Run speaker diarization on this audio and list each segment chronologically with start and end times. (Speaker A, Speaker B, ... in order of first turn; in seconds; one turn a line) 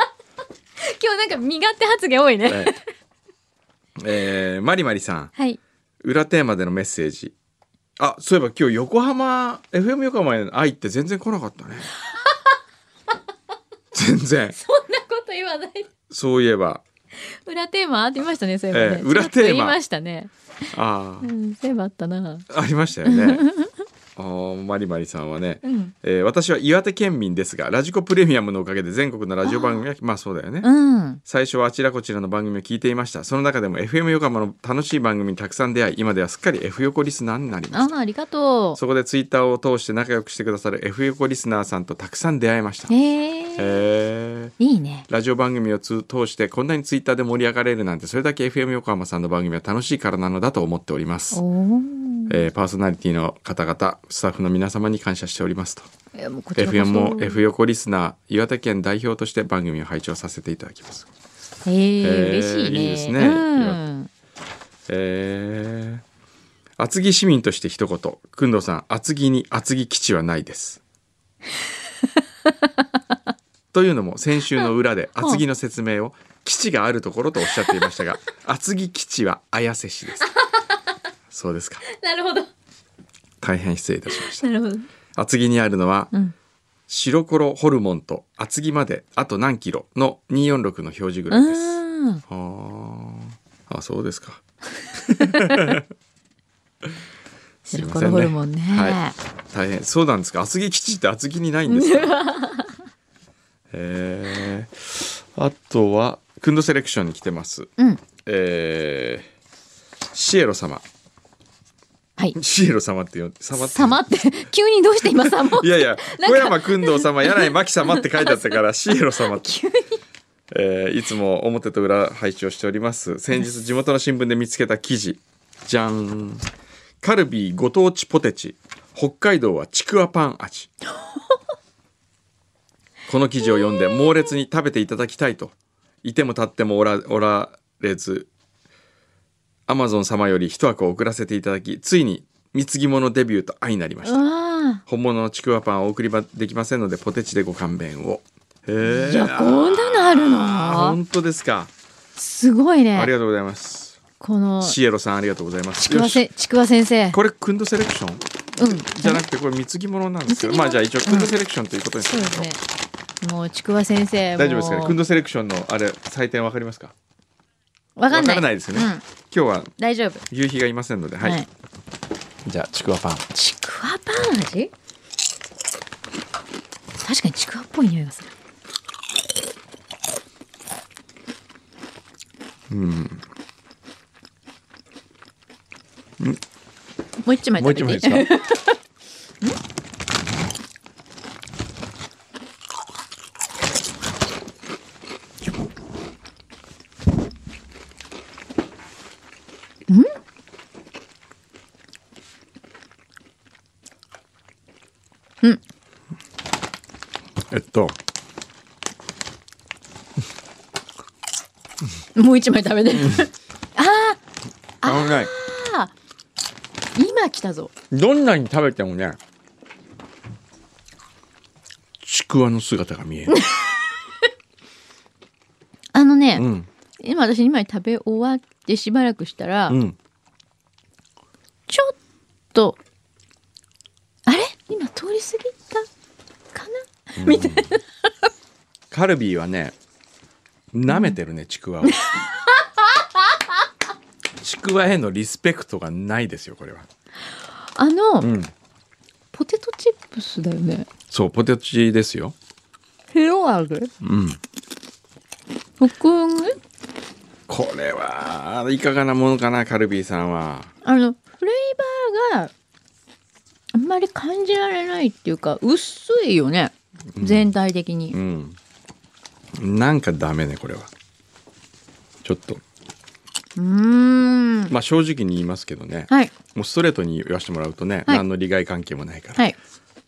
Speaker A: 0.8-2.8
Speaker B: 2.5-2.7
Speaker B: 4.0-5.3
Speaker B: 6.0-7.3
Speaker B: 8.0-11.9
Speaker B: 13.9-14.6
Speaker A: 14.5-15.9
Speaker B: 16.1-16.8
Speaker A: 17.4-20.3
Speaker B: 18.7-19.8
Speaker B: 20.7-21.3
Speaker A: 21.2-22.5
Speaker B: 22.5-23.4
Speaker A: 23.1-23.7
Speaker B: 24.2-30.7
Speaker A: 25.6-25.9
Speaker A: 29.4-29.9
Speaker A: 30.6-31.2
Speaker B: 31.2-37.9
Speaker A: 37.7-38.8
Speaker B: 38.8-42.9
Speaker A: 42.9-43.8
Speaker B: 43.6-44.5
Speaker A: 44.6-45.1
Speaker B: 45.1-51.4
Speaker A: 51.3-52.4
Speaker B: 52.3-55.9
Speaker A: 56.1-57.4
Speaker B: 56.6-61.1
Speaker A: 61.7-64.1
Speaker B: 62.0-63.8
Speaker B: 64.9-66.0
Speaker B: 66.8-70.8
Speaker B: 73.7-80.3
Speaker A: 77.5-77.9
Speaker B: 81.3-81.8
Speaker A: 81.9-82.5
Speaker B: 83.4-84.5
Speaker A: 84.2-84.9
Speaker B: 85.2-86.1
Speaker B: 86.9-94.4
Speaker A: 91.3-92.2
Speaker B: 95.0-95.8
Speaker A: 95.3-95.8
Speaker B: 97.7-99.0
Speaker A: 97.7-99.2
Speaker B: 99.5-102.1
Speaker A: 101.7-102.8
Speaker B: 103.7-107.7
Speaker B: 108.2-109.3
Speaker B: 110.1-110.8
Speaker B: 112.3-114.0
Speaker A: 113.6-120.0
Speaker B: 115.0-119.6
Speaker B: 120.5-126.5
Speaker B: 127.0-130.7
Speaker B: 133.1-138.3
Speaker B: 139.7-144.2
Speaker A: 144.0-144.8
Speaker B: 144.9-151.7
Speaker A: 148.8-151.0
Speaker A: 152.2-153.1
Speaker B: 152.9-154.0
Speaker A: 154.2-154.8
Speaker B: 154.6-156.2
Speaker A: 155.8-157.2
Speaker B: 157.1-162.5
Speaker A: 158.6-159.2
Speaker A: 160.3-161.3
Speaker A: 162.0-162.6
Speaker A: 163.2-165.0
Speaker B: 164.4-166.9
Speaker A: 168.0-169.1
Speaker B: 168.1-169.8
Speaker A: 169.8-170.2
Speaker B: 170.3-171.4
Speaker A: 171.2-171.5
Speaker B: 172.5-173.3
Speaker A: 173.3-174.7
Speaker A: 177.0-178.3
Speaker B: 182.7-183.2
Speaker A: 187.2-188.8
Speaker B: 187.6-188.3
Speaker A: 199.9-200.2
Speaker B: 207.5-208.0
Speaker A: 212.2-214.2
Speaker A: 214.8-215.9
Speaker B: 214.8-215.3
Speaker A: 217.0-217.7
Speaker B: 217.9-219.2
Speaker B: 222.0-223.4
Speaker A: 223.3-223.9
Speaker A: 225.9-226.5
Speaker B: 226.4-226.7
Speaker A: 227.0-229.8
Speaker B: 229.7-230.0
Speaker A: 231.7-231.9
Speaker A: 234.3-235.9
Speaker A: 236.5-237.8
Speaker B: 237.2-237.7
Speaker B: 238.9-239.8
Speaker B: 240.7-242.0
Speaker A: 240.9-241.2
Speaker A: 241.8-243.2
Speaker B: 244.4-246.9
Speaker A: 247.8-248.3
Speaker B: 248.2-248.5
Speaker A: 249.3-250.9
Speaker B: 251.1-252.3
Speaker A: 253.1-253.9
Speaker B: 254.0-254.4
Speaker A: 255.8-256.6
Speaker B: 257.5-260.7
Speaker A: 260.8-262.5
Speaker A: 263.7-268.2
Speaker B: 267.1-267.5
Speaker B: 268.1-268.6
Speaker B: 269.6-270.9
Speaker B: 272.2-272.6
Speaker A: 273.6-274.7
Speaker B: 274.7-279.4